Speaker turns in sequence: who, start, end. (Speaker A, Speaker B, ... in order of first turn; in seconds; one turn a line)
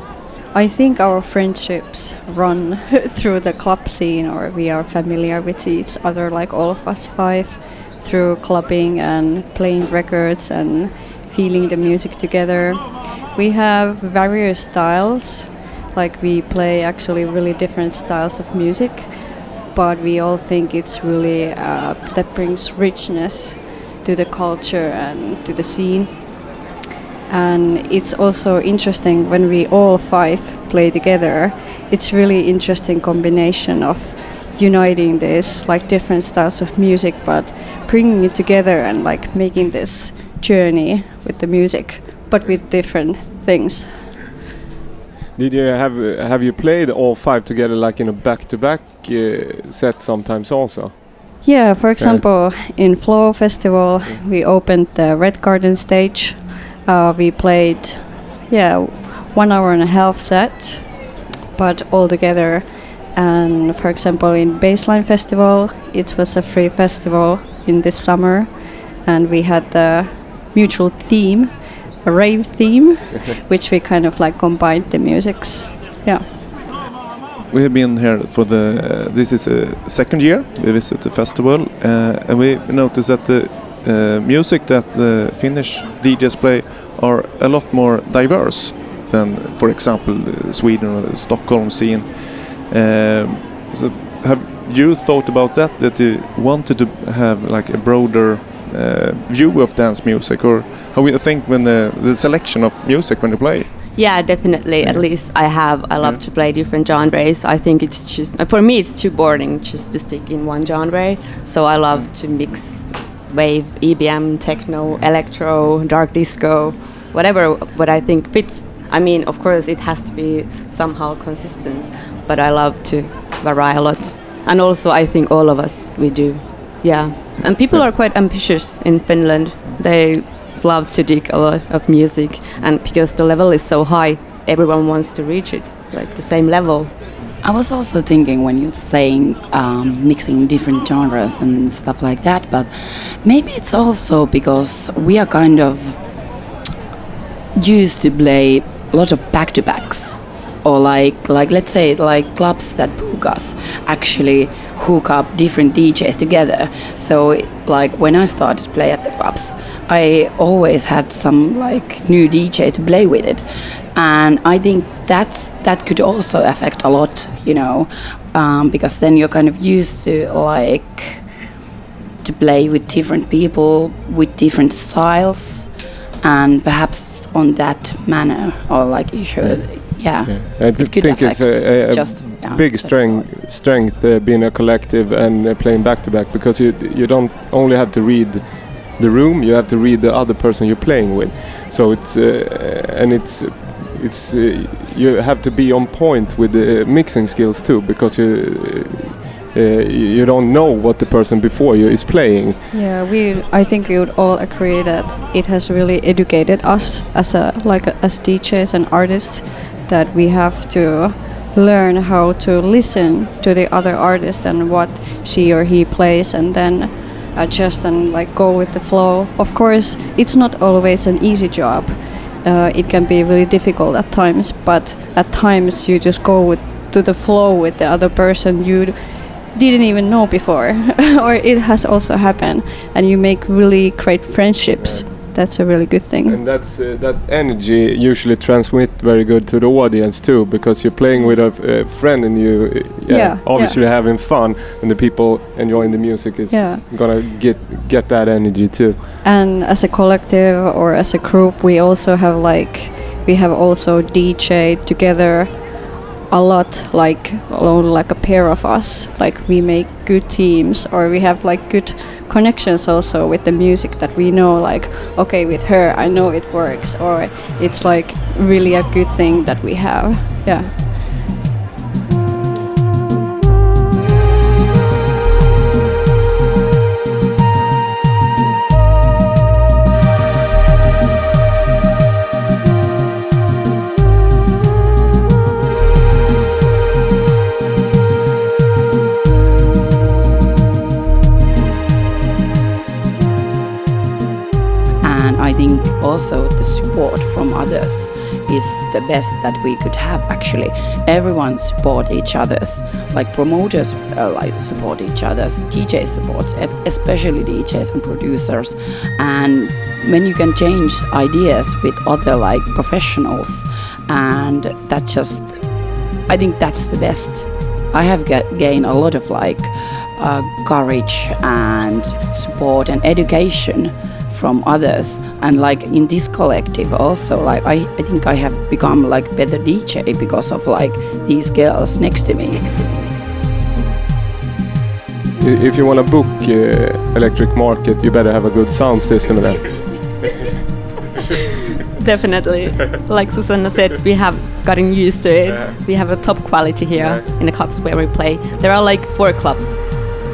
Speaker A: 0.5-26.4
Speaker A: 27.3-44.1
Speaker B: 45.4-51.2
Speaker A: 51.4-76.3
Speaker B: 52.0-52.2
Speaker C: 77.5-103.7
Speaker D: 103.9-136.9
Speaker C: 104.8-105.1
Speaker E: 137.4-146.0
Speaker E: 147.5-171.3
Speaker E: 172.2-175.7
Speaker E: 176.2-183.4
Speaker B: 179.4-202.6
Speaker A: 202.7-236.4
Speaker B: 234.8-235.1
Speaker B: 236.2-249.0
Speaker A: 243.1-243.8
Speaker A: 246.5-246.8
Speaker A: 249.2-270.8
Speaker E: 295.0-315.6
Speaker E: 316.3-332.7
Speaker B: 335.4-339.7
Speaker D: 342.0-350.1
Speaker B: 345.4-345.7
Speaker B: 346.9-347.2